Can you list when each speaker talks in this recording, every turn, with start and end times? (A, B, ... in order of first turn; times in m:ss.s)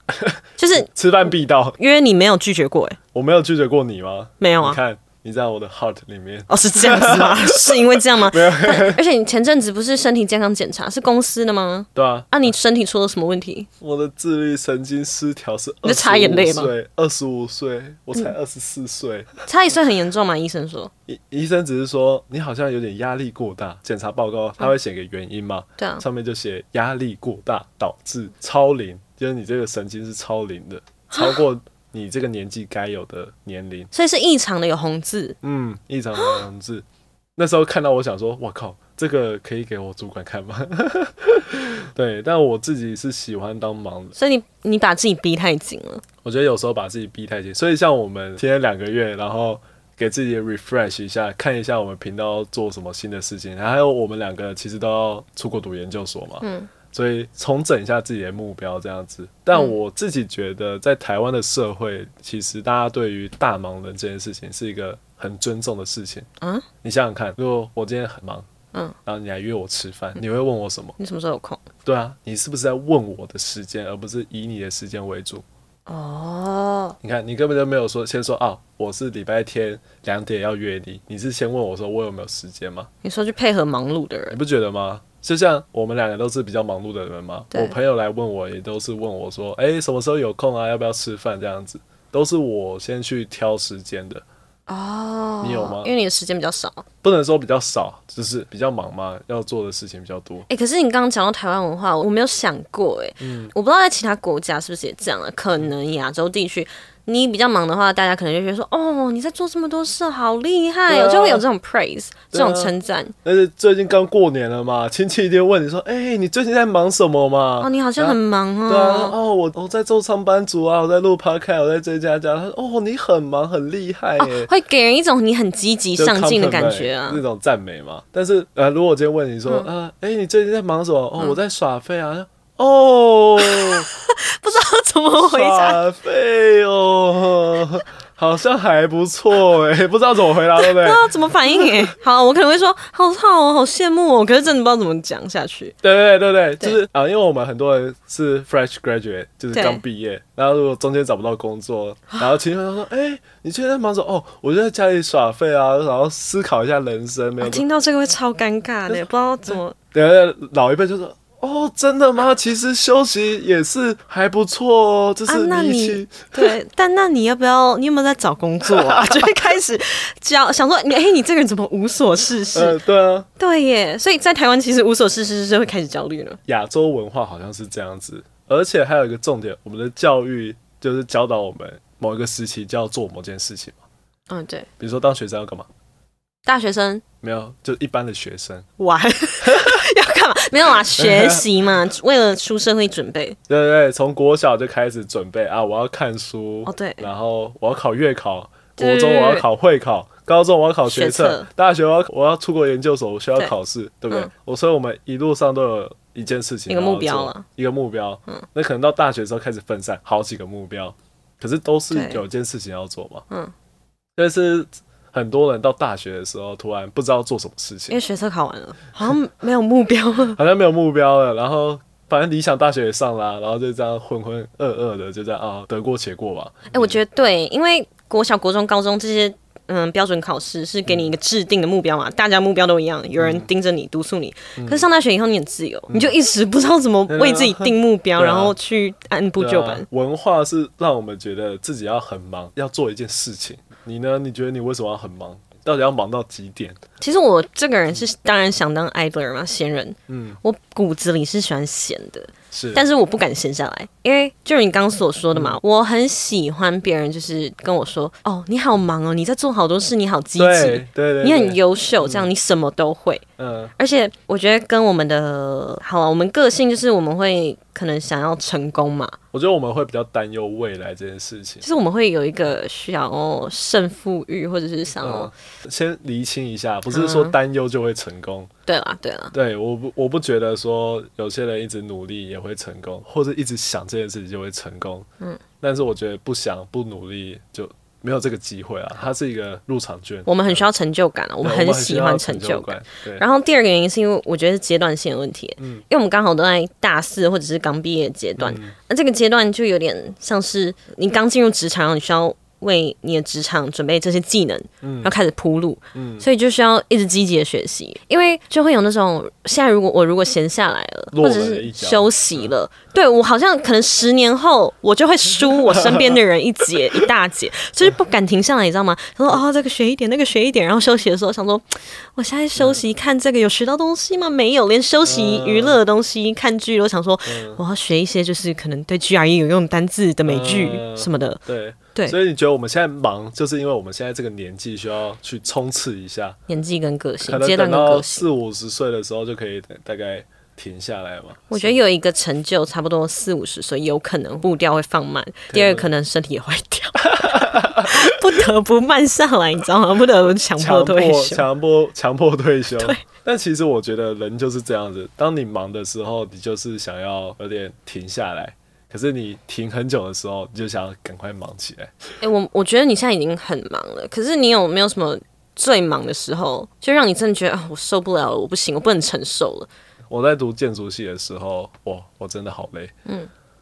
0:00.2-0:01.8 A
0:00.6-0:00.9 B
0:01.8-0:03.0 B
0:03.1-0:09.0 A
0:04.4-0:04.8 B
0:06.5-0:13.7 B
0:11.9-0:12.3 A
0:13.8-0:19.3 A
0:15.8-0:16.7 B
0:19.4-0:20.9 B
0:21.1-0:33.9 A
0:25.8-0:26.0 B
0:31.1-0:31.4 B
0:33.9-0:35.4 B
0:35.4-0:36.8 A
0:36.2-0:36.4 B
0:37.4-0:44.2 A
0:44.2-0:46.0 B
0:46.2-1:06.3 A
0:56.4-0:56.7 B
1:06.4-1:06.7 B
1:06.8-1:08.4 A
1:09.0-1:10.9 A
1:11.0-1:11.7 B
1:11.8-1:15.4 A
1:15.9-1:17.0 B
1:17.0-1:22.9 A
1:23.0-1:24.4 B
1:24.3-1:34.2 A
1:34.7-1:36.8 B
1:35.4-1:35.9 A
1:37.0-1:40.5 A
1:40.5-1:53.1 B
1:43.2-1:43.5 A
1:50.9-1:51.4 A
1:52.3-1:52.7 A
1:53.2-2:04.5 A
1:57.6-1:59.2 B
2:04.2-2:07.2 B
2:06.0-2:13.9 A
2:13.4-2:15.8 B
2:15.2-2:21.9 A
2:20.5-2:25.7 B
2:25.8-2:37.6 A
2:29.5-2:29.8 B
2:37.4-2:39.8 B
2:38.9-2:46.5 A
2:45.3-2:52.8 B
2:48.6-2:49.4 A
2:52.5-2:53.3 A
2:53.4-2:56.4 B
2:56.4-3:03.8 A
3:04.3-3:04.7 B
3:04.8-3:05.7 A
3:06.4-3:07.0 B
3:07.2-3:08.7 A
3:08.8-3:13.4 B
3:09.4-3:09.8 A
3:10.9-3:11.7 A
3:13.5-3:33.2 A
3:16.7-3:17.0 B
3:18.8-3:19.5 B
3:20.8-3:21.5 B
3:26.7-3:27.4 B
3:31.9-3:32.2 B
3:34.2-3:38.0 A
3:37.9-3:40.4 B
3:40.4-3:47.0 A
3:46.7-3:59.8 B
3:53.2-3:53.5 A
3:54.6-3:54.9 A
3:55.9-3:56.2 A
3:57.1-3:58.6 A
3:59.4-4:06.8 A
4:07.0-4:23.2 B
4:10.1-4:10.4 A
4:12.5-4:12.8 A
4:15.3-4:15.6 A
4:20.4-4:22.3 A
4:23.4-4:23.7 A
4:23.8-4:29.2 B
4:29.3-4:31.6 A
4:31.6-4:35.3 B
4:35.0-4:38.5 A
4:36.9-4:37.3 B
4:38.7-4:39.3 B
4:39.3-4:45.1 A
4:45.6-4:50.7 A
4:50.2-5:31.4 B
4:51.4-4:53.2 A
4:55.6-4:55.8 A
4:58.4-4:58.7 A
5:04.8-5:05.1 A
5:05.9-5:06.3 A
5:11.1-5:12.5 A
5:15.7-5:16.2 A
5:22.6-5:22.8 A
5:25.0-5:25.8 A
5:27.2-5:27.6 A
5:30.2-5:36.4 A
5:36.5-5:38.3 B
5:37.2-5:41.8 A
5:41.5-5:51.5 B
5:45.5-5:45.9 A
5:47.0-5:48.2 A
5:50.6-6:02.1 A
6:02.2-6:09.7 B
6:10.1-6:12.9 A